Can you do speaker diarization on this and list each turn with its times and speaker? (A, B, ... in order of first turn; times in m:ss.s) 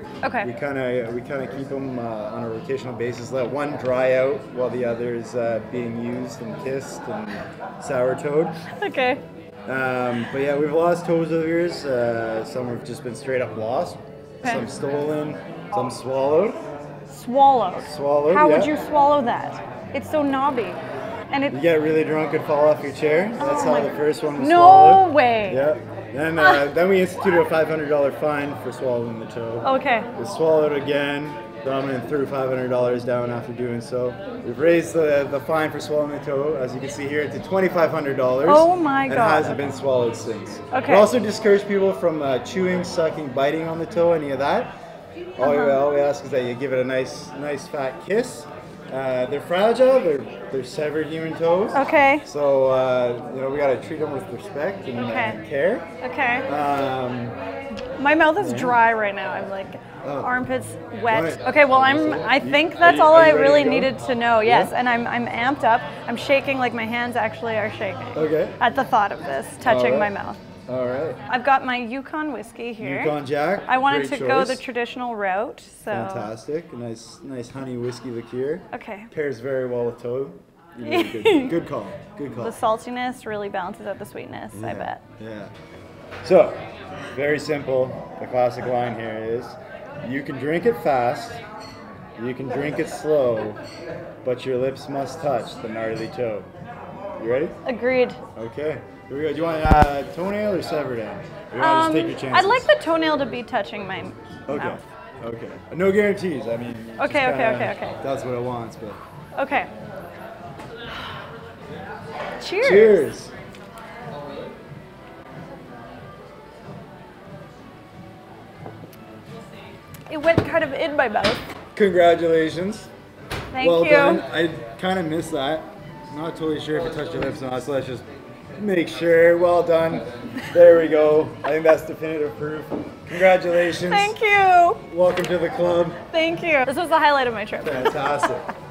0:00.2-0:00.5 A
0:00.4-0:08.6 B
0:08.7-0:09.2 A
0:09.7-0:16.6 B
0:17.1-0:21.6 A
0:17.8-0:18.7 B
0:21.5-0:44.7 B
0:23.4-0:25.7 A
0:26.4-0:26.7 A
0:29.6-0:30.1 A
0:38.4-0:39.6 A
0:40.7-0:41.1 A
0:45.4-0:55.9 B
0:45.4-0:45.8 A
0:51.7-0:52.2 A
0:55.0-0:55.4 A
0:56.0-0:56.5 A
0:56.5-0:57.4 B
0:58.0-1:10.4 A
0:58.4-0:58.8 B
1:00.0-1:00.3 B
1:01.1-1:04.7 B
1:08.1-1:08.6 B
1:09.6-1:10.1 B
1:10.7-1:11.2 B
1:11.3-1:16.3 A
1:12.8-1:14.6 B
1:15.9-1:22.6 B
1:18.7-1:19.1 A
1:20.8-1:21.6 A
1:22.4-1:25.0 A
1:24.5-1:25.5 B
1:26.2-1:26.6 B
1:27.1-1:31.4 B
1:32.2-1:33.6 B
1:34.2-1:36.5 B
1:37.2-1:37.6 B
1:37.6-1:38.2 A
1:38.3-1:42.7 B
1:41.6-1:44.8 A
1:44.5-1:49.0 B
1:47.0-1:48.0 A
1:49.3-1:49.7 A
1:52.4-1:53.1 A
1:52.6-1:53.3 B
2:00.1-2:01.4 A
2:01.7-2:02.9 B
2:03.5-2:04.2 A
2:03.6-2:14.2 B
2:13.6-2:14.8 A
2:14.9-2:16.0 B
2:16.1-2:18.3 A
2:17.6-2:18.5 B